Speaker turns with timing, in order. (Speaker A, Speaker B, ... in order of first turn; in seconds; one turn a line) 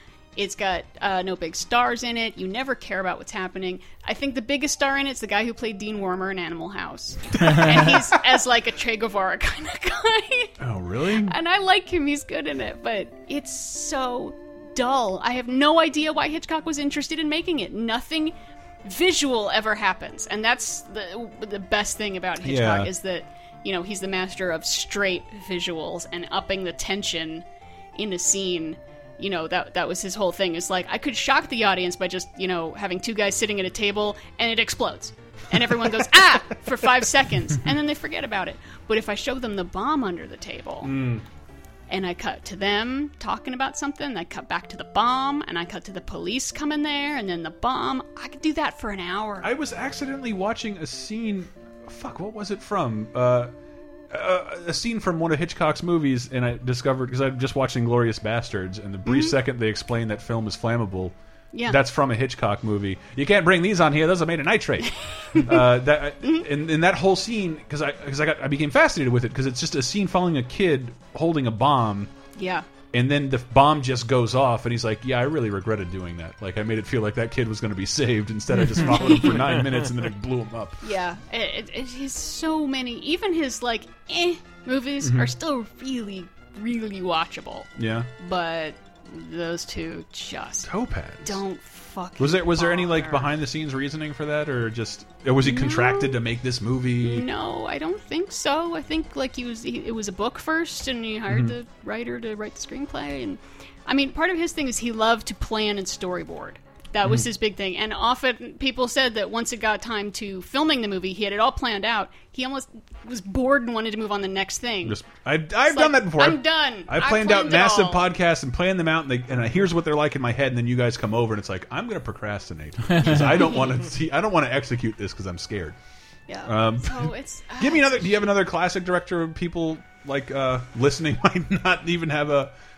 Speaker A: 0.3-10.6
Speaker B: 7.4-7.8
Speaker B: 10.6-11.3
Speaker A: 11.2-27.4
Speaker B: 22.4-22.9
Speaker A: 27.9-40.9
Speaker B: 40.8-41.2
Speaker A: 41.9-49.5
Speaker B: 49.4-53.5
Speaker B: 54.1-61.1
Speaker A: 59.0-59.3
Speaker B: 61.6-72.1
Speaker A: 65.3-65.6
Speaker A: 72.3-72.7
Speaker B: 72.9-80.8
Speaker A: 78.7-79.6
Speaker A: 80.8-90.7
Speaker B: 85.0-85.3
Speaker B: 87.8-88.1
Speaker B: 90.6-91.4
Speaker A: 91.2-93.3
Speaker B: 92.2-97.3
Speaker A: 95.4-96.2
Speaker A: 97.0-115.0
Speaker B: 101.3-101.5
Speaker B: 114.8-125.8
Speaker A: 115.7-118.1
Speaker A: 123.2-123.6
Speaker A: 126.3-128.0
Speaker B: 126.4-132.5